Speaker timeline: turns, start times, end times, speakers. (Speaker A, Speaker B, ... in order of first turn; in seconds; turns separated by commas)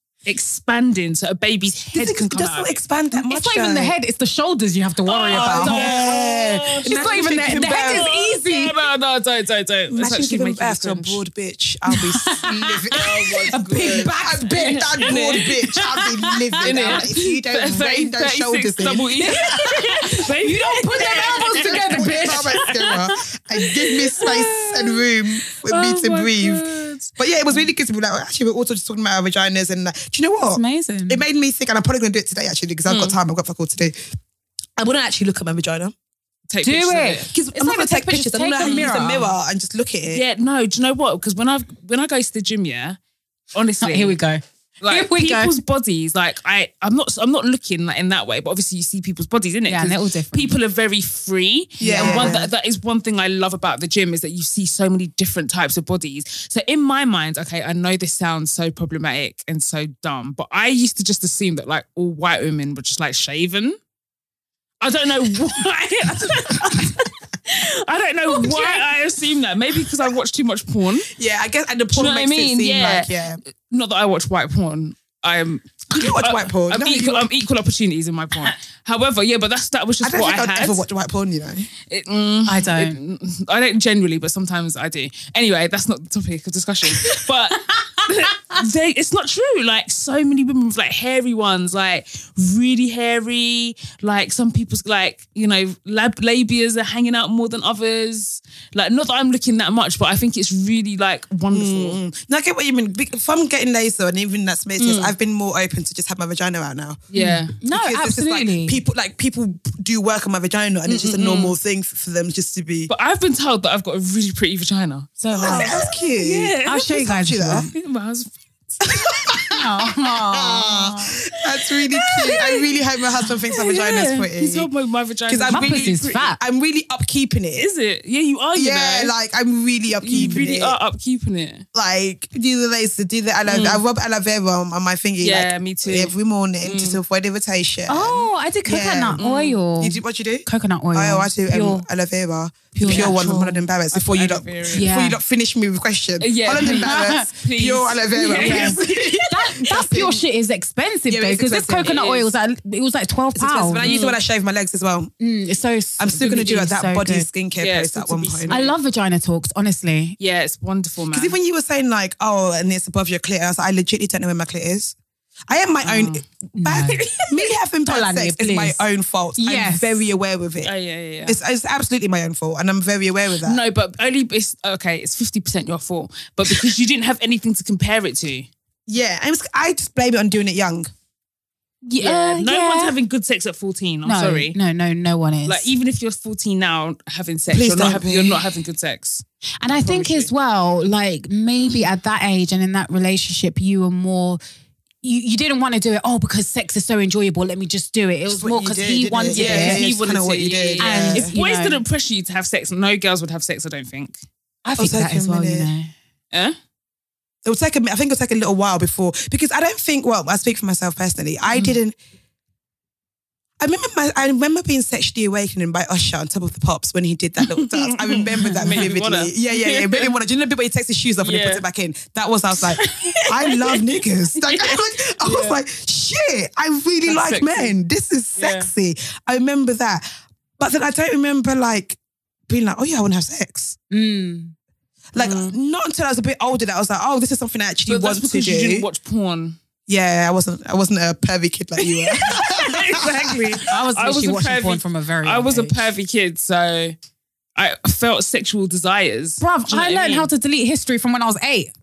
Speaker A: 0.2-2.8, Speaker B: 1.9-3.9, Speaker C: 3.1-6.0, Speaker A: 5.0-11.2, Speaker B: 5.3-8.1, Speaker C: 6.8-8.8, Speaker B: 9.9-20.0, Speaker C: 11.9-17.1, Speaker A: 12.9-15.5, Speaker A: 16.6-23.0, Speaker C: 19.2-23.1, Speaker B: 20.9-26.6, Speaker A: 24.1-27.1, Speaker B: 27.1-34.0, Speaker C: 30.5-31.2, Speaker A: 32.9-33.1, Speaker B: 34.8-35.9, Speaker A: 36.5-37.3, Speaker C: 36.6-39.3, Speaker B: 37.3-40.2, Speaker A: 38.6-38.9, Speaker A: 40.1-43.0, Speaker A: 43.5-44.2, Speaker C: 43.8-45.5, Speaker A: 44.8-63.8, Speaker C: 49.7-50.5, Speaker B: 51.8-52.5, Speaker C: 51.8-52.4, Speaker A: 64.8-71.1, Speaker B: 71.1-73.4, Speaker A: 71.9-80.8, Speaker B: 75.9-77.3, Speaker B: 80.0-81.7, Speaker A: 81.9-102.0, Speaker C: 82.5-83.0, Speaker C: 87.7-88.6, Speaker B: 101.5-107.0, Speaker A: 104.8-105.1, Speaker A: 107.1-107.5, Speaker C: 107.1-108.8, Speaker B: 107.6-112.9, Speaker A: 110.8-111.5, Speaker A: 112.9-117.0, Speaker C: 115.2-115.9, Speaker B: 115.3-117.7, Speaker C: 116.7-117.7, Speaker A: 117.5-119.2, Speaker B: 118.8-124.7, Speaker C: 119.5-121.2, Speaker A: 122.0-122.7, Speaker A: 123.5-126.3, Speaker B: 125.3-127.7, Speaker C: 125.5-126.4, Speaker A: 127.5-129.1, Speaker B: 128.5-130.8, Speaker A: 129.9-131.6, Speaker C: 130.2-130.4, Speaker B: 131.7-139.2, Speaker A: 133.5-133.8, Speaker A: 135.2-137.0, Speaker C: 137.9-141.8, Speaker A: 139.2-139.6, Speaker B: 139.8-150.2, Speaker C: 142.7-143.7, Speaker A: 142.8-143.4, Speaker A: 143.9-144.9, Speaker C: 144.7-145.2, Speaker A: 146.2-149.5, Speaker C: 146.6-147.3, Speaker C: 148.3-148.8, Speaker C: 149.3-153.9, Speaker B: 151.1-152.0, Speaker A: 151.8-152.3, Speaker B: 153.3-155.1, Speaker A: 153.8-154.2, Speaker C: 155.2-157.3, Speaker B: 156.0-158.5, Speaker A: 157.6-158.8, Speaker C: 158.5-160.2, Speaker A: 160.2-161.3, Speaker B: 161.1-164.9, Speaker B: 165.5-170.7, Speaker A: 165.8-166.2, Speaker C: 166.6-167.2, Speaker C: 167.8-168.8, Speaker C: 169.4-170.1, Speaker A: 170.6-171.4, Speaker B: 171.2-173.6, Speaker A: 173.4-178.5, Speaker B: 178.9-180.9, Speaker C: 181.8-182.9, Speaker A: 182.0-184.6, Speaker C: 184.0-185.7, Speaker A: 185.4-189.2, Speaker B: 187.5-188.4, Speaker C: 189.6-194.4, Speaker A: 189.8-190.3, Speaker C: 195.0-199.8, Speaker B: 198.3-201.3, Speaker A: 199.3-204.2, Speaker C: 200.8-201.8, Speaker C: 204.6-205.9, Speaker B: 204.8-205.7, Speaker B: 207.4-211.9, Speaker B: 213.6-230.0, Speaker A: 217.4-220.1, Speaker C: 218.4-218.8, Speaker A: 221.2-221.6, Speaker A: 222.8-225.6, Speaker A: 227.1-227.7, Speaker A: 228.3-228.7, Speaker B: 230.6-233.8, Speaker C: 233.9-234.5, Speaker B: 235.1-238.9, Speaker A: 235.2-235.5, Speaker A: 237.8-239.6, Speaker B: 239.9-243.6, Speaker A: 241.8-246.9, Speaker C: 243.7-245.8, Speaker A: 247.6-250.3, Speaker C: 249.4-251.7